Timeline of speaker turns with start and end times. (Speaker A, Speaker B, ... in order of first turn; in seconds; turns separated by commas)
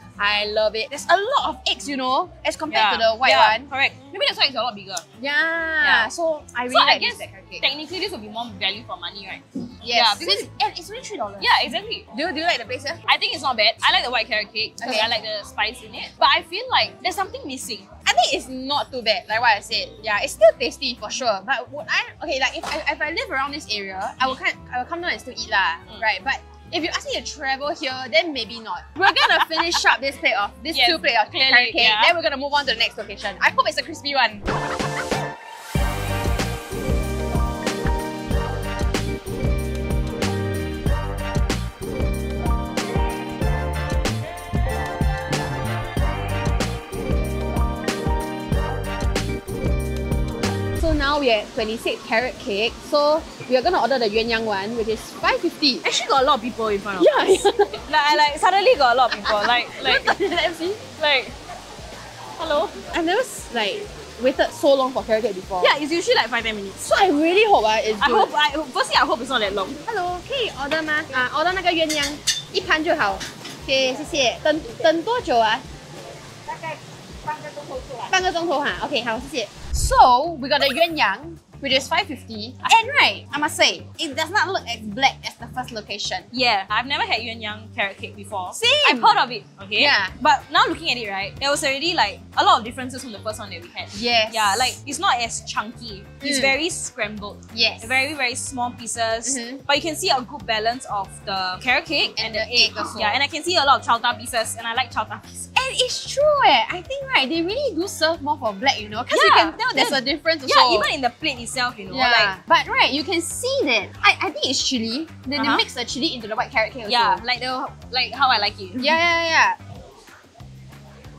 Speaker A: 0.2-3.7, Speaker B: 2.7-5.0, Speaker A: 5.2-7.6, Speaker B: 5.8-6.1, Speaker B: 6.7-10.5, Speaker A: 9.8-11.5, Speaker B: 11.4-12.1, Speaker A: 12.1-13.0, Speaker B: 13.1-17.9, Speaker A: 14.8-15.1, Speaker A: 18.0-34.5, Speaker B: 30.7-32.1, Speaker A: 50.8-55.8, Speaker B: 55.8-60.2, Speaker A: 57.0-57.8, Speaker A: 59.1-60.8, Speaker B: 61.0-61.4, Speaker B: 62.4-62.8, Speaker A: 62.9-65.7, Speaker B: 65.6-66.9, Speaker A: 66.8-68.3, Speaker B: 68.0-69.8, Speaker A: 69.8-75.6, Speaker A: 78.1-86.3, Speaker B: 86.3-105.5, Speaker A: 88.5-89.2, Speaker A: 89.8-90.1, Speaker A: 93.9-94.8, Speaker A: 96.2-96.5, Speaker A: 97.5-97.9, Speaker A: 99.2-99.6, Speaker A: 102.2-103.2, Speaker A: 105.5-110.9, Speaker B: 109.1-112.3, Speaker A: 111.9-117.2, Speaker B: 115.4-115.6, Speaker B: 116.9-119.0, Speaker A: 118.8-119.6